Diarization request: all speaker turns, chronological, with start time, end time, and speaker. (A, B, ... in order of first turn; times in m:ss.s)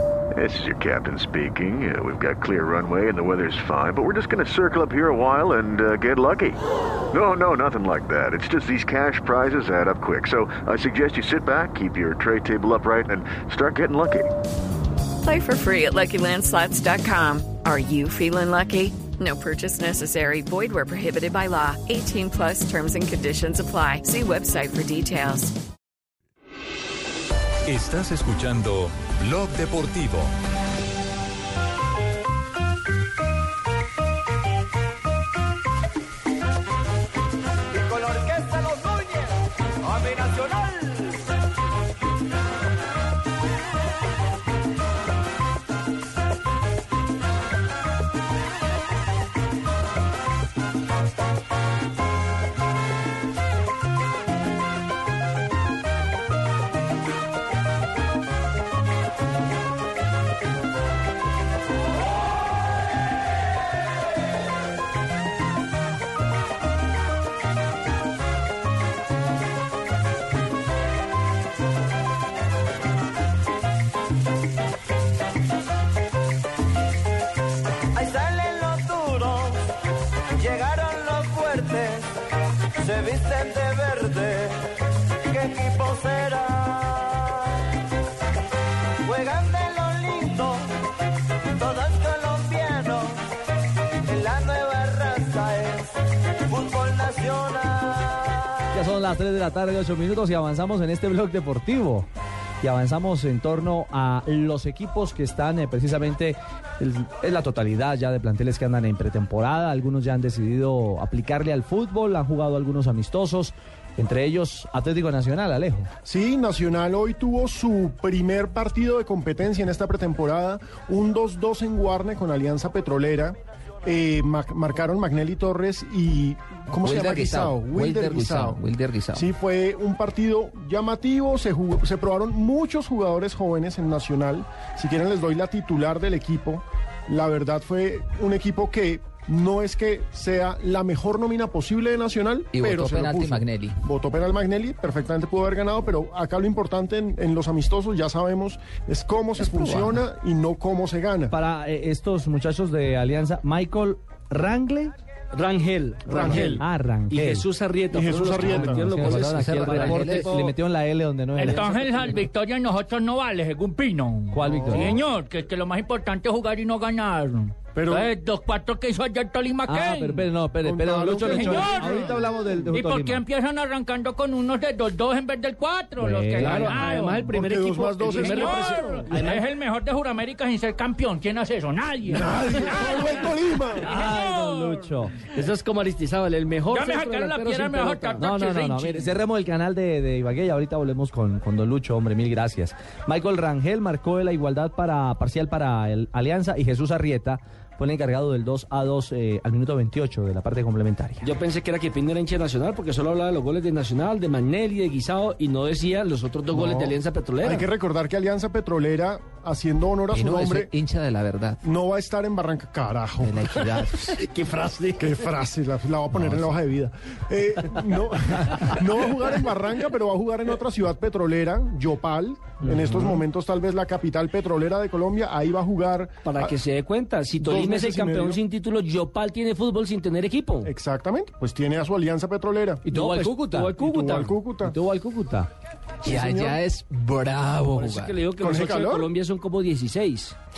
0:00.3-0:06.6 A
0:07.1-0:14.3 A
0:15.2-0:25.5 B
0:27.7-0:30.3 C
0:37.9-0:39.1 D
0:40.0-0:40.6 D
1:18.0-1:19.5 D
1:20.7-1:21.8 D
1:23.0-1:24.5 D
1:25.3-1:27.1 D
1:29.1-1:30.6 D
1:31.9-1:33.1 D
1:34.6-1:34.9 D
1:37.0-1:37.5 D
1:38.7-1:42.1 E
1:42.6-1:55.9 E
1:56.0-2:31.3 F
2:06.8-2:09.2 G
2:22.5-2:23.8 G
2:29.4-2:30.0 G
2:31.3-2:34.9 E
2:35.3-2:40.6 H
2:36.1-2:36.6 F
2:36.3-2:37.5 E
2:37.9-2:38.8 F
2:38.4-2:41.7 E
2:39.3-2:40.4 G
2:41.4-2:50.3 I
2:41.4-2:42.2 H
2:44.3-2:45.0 E
2:47.7-2:48.1 F
2:49.6-2:53.2 E
2:50.6-2:52.0 F
2:51.2-2:57.3 I
2:56.0-2:56.7 E
2:56.4-2:59.2 H
2:57.2-2:59.3 F
2:58.1-3:03.2 I
2:59.1-2:59.4 E
3:02.1-3:04.0 F
3:03.8-3:05.2 E
3:03.8-3:04.9 I
3:05.2-3:08.3 H
3:06.7-3:09.1 I
3:08.2-3:21.3 E
3:21.2-3:27.7 H
3:26.5-3:30.7 F
3:30.1-3:31.6 G
3:31.6-3:33.4 F
3:33.2-3:34.2 G
3:33.5-3:35.3 H
3:35.0-3:46.6 F
3:36.1-3:36.5 G
3:46.2-3:50.7 H
3:47.4-3:48.4 F
3:50.6-3:52.8 F
3:52.8-3:53.7 E
3:52.8-3:54.4 H
3:53.8-3:54.8 F
3:54.6-3:55.4 E
3:55.1-3:55.4 H
3:56.0-3:56.6 F
3:56.0-3:58.2 G
3:57.7-4:00.3 H
3:58.4-3:59.1 F